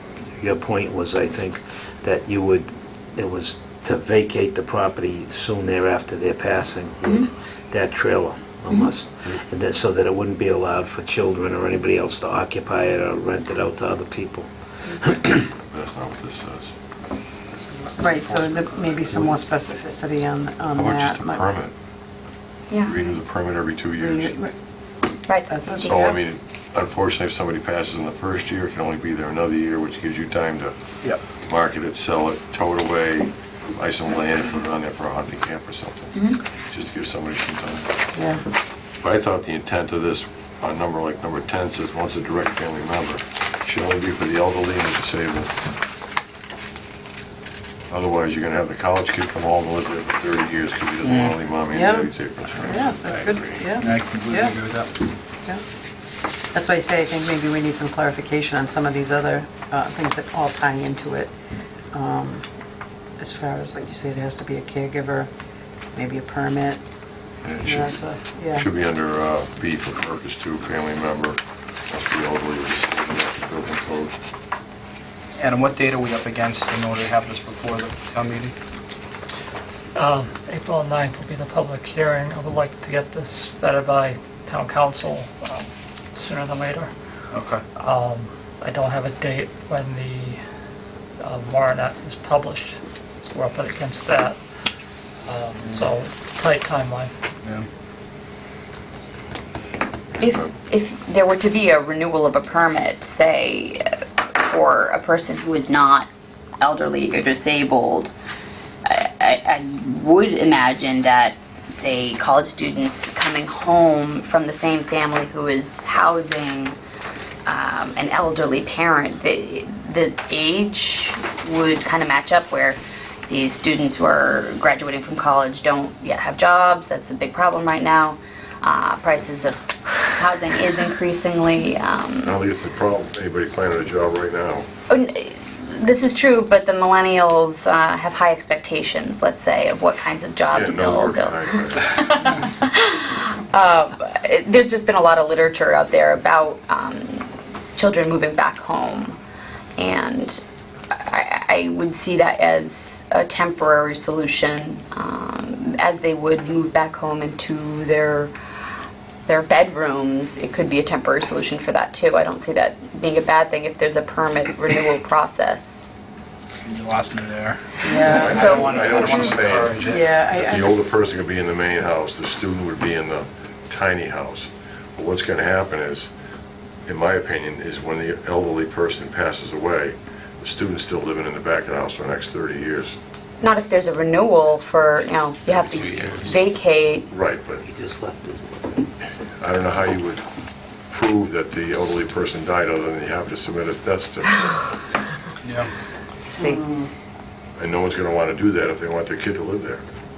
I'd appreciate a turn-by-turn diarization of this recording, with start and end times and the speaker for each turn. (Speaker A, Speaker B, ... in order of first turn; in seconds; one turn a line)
Speaker A: 0.4-14.5
Speaker A: 15.1-15.4
Speaker B: 15.3-16.7
Speaker B: 17.7-19.4
Speaker C: 18.0-21.6
Speaker B: 20.8-21.7
Speaker D: 22.7-23.0
Speaker B: 22.9-24.3
Speaker C: 24.0-24.5
Speaker D: 25.3-26.0
Speaker C: 25.5-26.2
Speaker B: 25.9-30.8
Speaker B: 31.4-36.1
Speaker D: 36.1-36.4
Speaker B: 36.7-37.9
Speaker C: 38.1-38.4
Speaker B: 39.0-45.5
Speaker B: 47.9-53.7
Speaker E: 51.0-51.4
Speaker C: 51.7-54.6
Speaker E: 53.7-55.0
Speaker C: 56.5-61.3
Speaker C: 61.9-62.4
Speaker C: 63.2-65.3
Speaker C: 66.0-66.8
Speaker B: 67.4-68.0
Speaker C: 67.6-68.7
Speaker B: 68.5-74.2
Speaker E: 75.4-78.5
Speaker F: 80.0-86.9
Speaker E: 87.3-87.6
Speaker F: 87.8-90.4
Speaker F: 91.2-94.4
Speaker F: 95.2-97.1
Speaker D: 100.2-106.1
Speaker D: 106.6-108.1
Speaker D: 108.9-116.8
Speaker D: 117.5-132.4
Speaker B: 132.2-134.7
Speaker D: 134.9-149.2
Speaker B: 140.5-142.0
Speaker D: 149.8-150.4
Speaker D: 150.9-158.3
Speaker D: 159.3-165.9
Speaker E: 166.6-170.4
Speaker C: 167.8-171.0
Speaker D: 168.0-169.3
Speaker B: 168.1-169.8
Speaker B: 170.4-176.1
Speaker B: 176.9-182.9
Speaker D: 183.4-187.1
Speaker E: 185.7-186.3
Speaker B: 187.1-187.6
Speaker A: 187.7-188.8
Speaker B: 189.4-190.2
Speaker B: 190.9-194.6
Speaker E: 195.4-195.7
Speaker D: 196.3-196.7
Speaker C: 196.4-196.8
Speaker B: 197.6-199.8